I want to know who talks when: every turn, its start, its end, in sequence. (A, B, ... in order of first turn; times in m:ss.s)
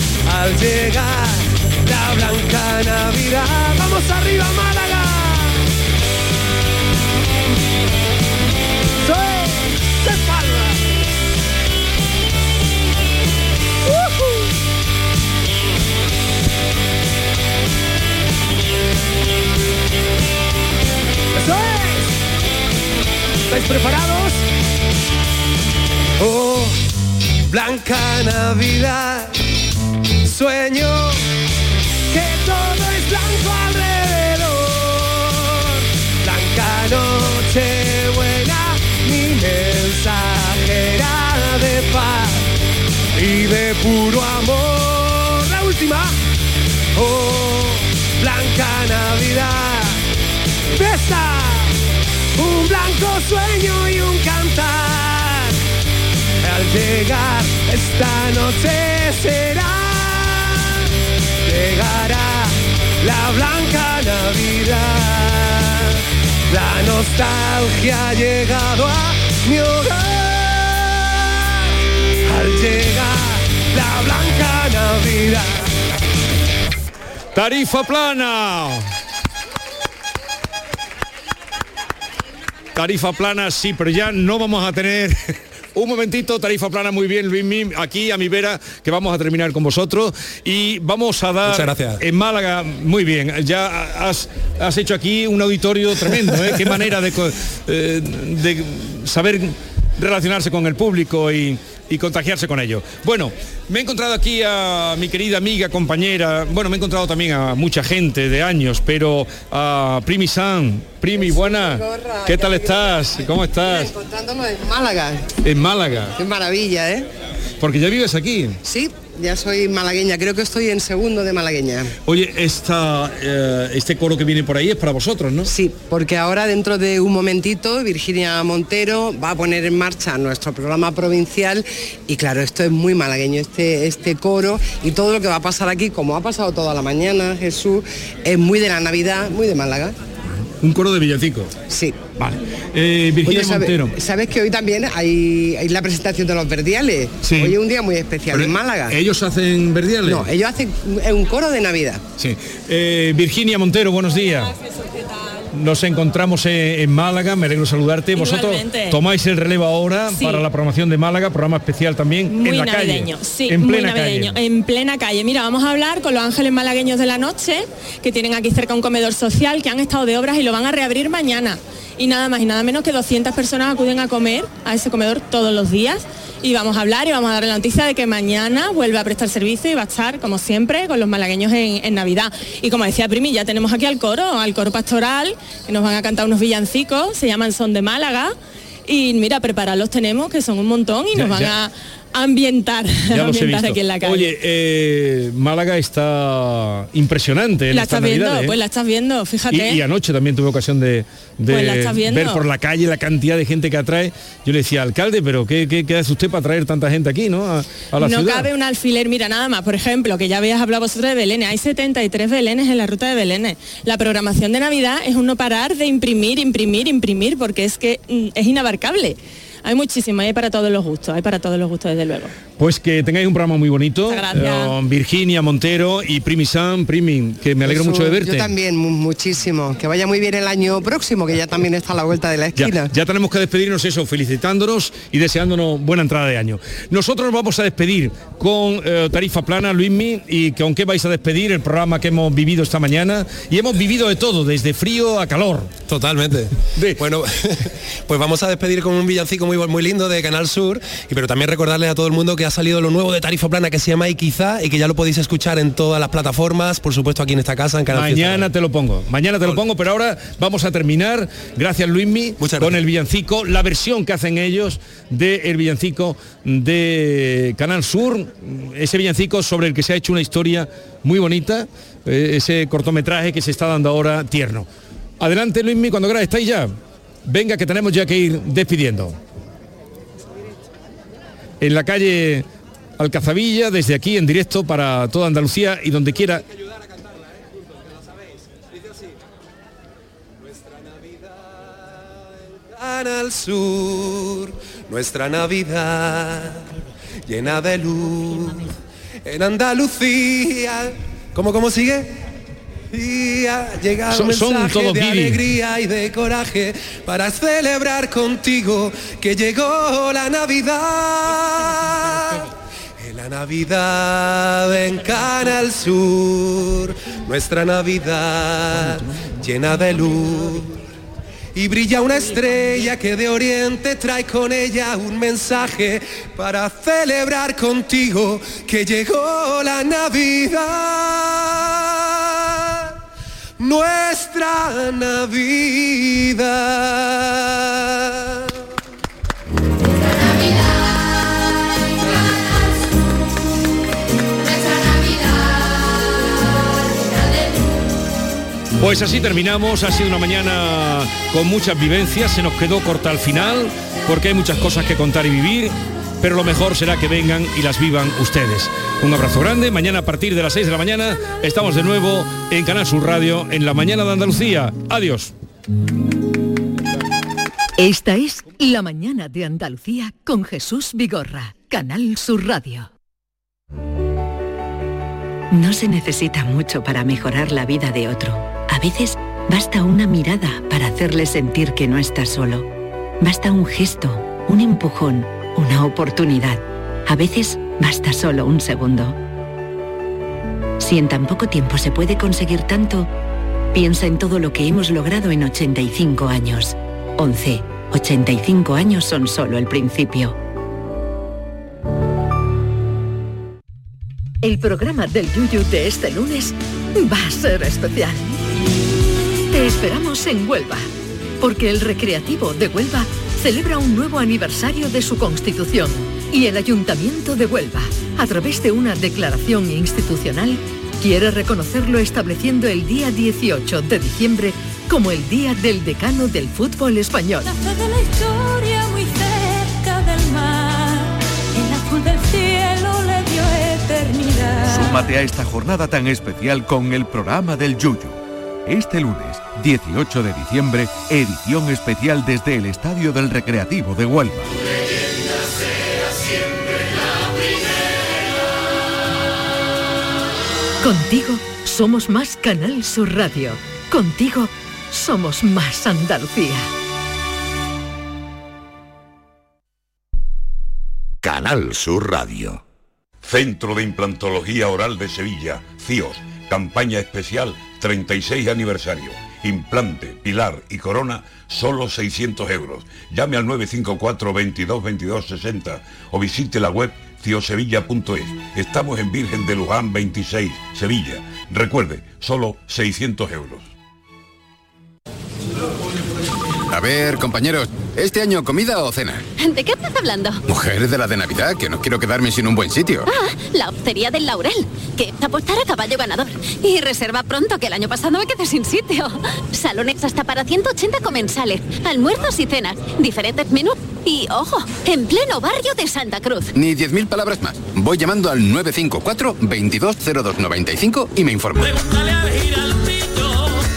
0:00.2-0:05.6 A
0:09.0-0:10.8 A
0:13.8-0:14.3 A
0:21.3-0:22.1 A
0:23.5-0:24.4 A
0:26.2-0:26.8 A
0:27.5-0:29.3 A
0:30.2-0:31.2 A
0:32.1-0:42.4 A
0:43.1-0:46.1 A
0:46.9-0:50.0 A
0:50.7-0:51.7 A
0:52.4-0:55.5 A
0:56.4-1:00.6 A
1:01.4-1:05.9 A
1:06.5-1:11.3 A
1:12.2-1:15.6 A
1:17.3-1:18.8 B
1:22.7-1:25.2 B
1:25.7-1:53.9 B
1:31.5-1:32.0 A
1:51.5-1:53.0 C
1:53.6-1:55.2 C
1:55.4-1:56.1 B
1:56.2-1:57.1 C
1:57.6-1:58.6 B
1:58.6-2:01.9 C
2:02.0-2:05.5 B
2:05.4-2:19.9 C
2:20.6-2:21.5 B
2:21.7-2:22.0 C
2:22.2-2:23.9 B
2:23.2-2:29.0 C
2:27.2-2:27.5 B
2:28.3-2:30.2 B
2:30.0-2:32.0 C
2:32.2-2:34.5 B
2:35.5-2:44.4 B
2:38.1-2:39.0 D
2:40.2-2:40.4 D
2:42.3-3:08.3 D
3:08.9-3:14.3 D
3:11.1-3:11.6 B
3:13.1-3:18.6 B
3:17.7-3:19.8 D
3:19.5-3:28.5 B
3:21.5-3:22.4 D
3:28.0-3:42.3 D
3:42.6-3:48.5 B
3:44.1-3:44.7 D
3:47.6-3:52.9 C
3:52.6-4:05.7 B
4:05.9-4:07.2 A
4:06.8-4:07.0 B
4:08.1-4:18.5 A
4:17.9-4:34.7 B
4:35.2-4:36.7 B
4:37.2-4:39.2 B
4:41.6-4:42.4 B
4:43.0-4:46.4 B
4:52.7-4:56.6 A
4:57.3-4:58.6 A
4:59.2-5:02.1 A
5:02.9-5:12.4 A
5:04.1-5:05.4 B
5:13.0-5:20.8 A
5:21.5-5:31.9 A
5:33.6-5:38.1 A
5:48.8-6:05.3 B
6:07.8-6:12.9 E
6:15.5-6:22.7 F
6:23.2-6:29.2 F
6:30.8-6:33.1 F
6:33.7-6:40.4 F
6:44.4-6:48.4 E
6:49.5-6:50.9 E
6:51.4-7:07.5 E
7:07.7-7:09.3 G
7:10.0-7:10.6 G
7:12.4-7:14.8 G
7:14.6-7:24.5 H
7:30.8-7:36.7 E
7:41.2-7:42.4 I
7:43.2-8:03.6 J
8:06.7-8:09.2 I
8:09.4-8:10.4 K
8:10.5-8:13.1 I
8:13.1-8:26.5 K
8:26.6-8:31.8 I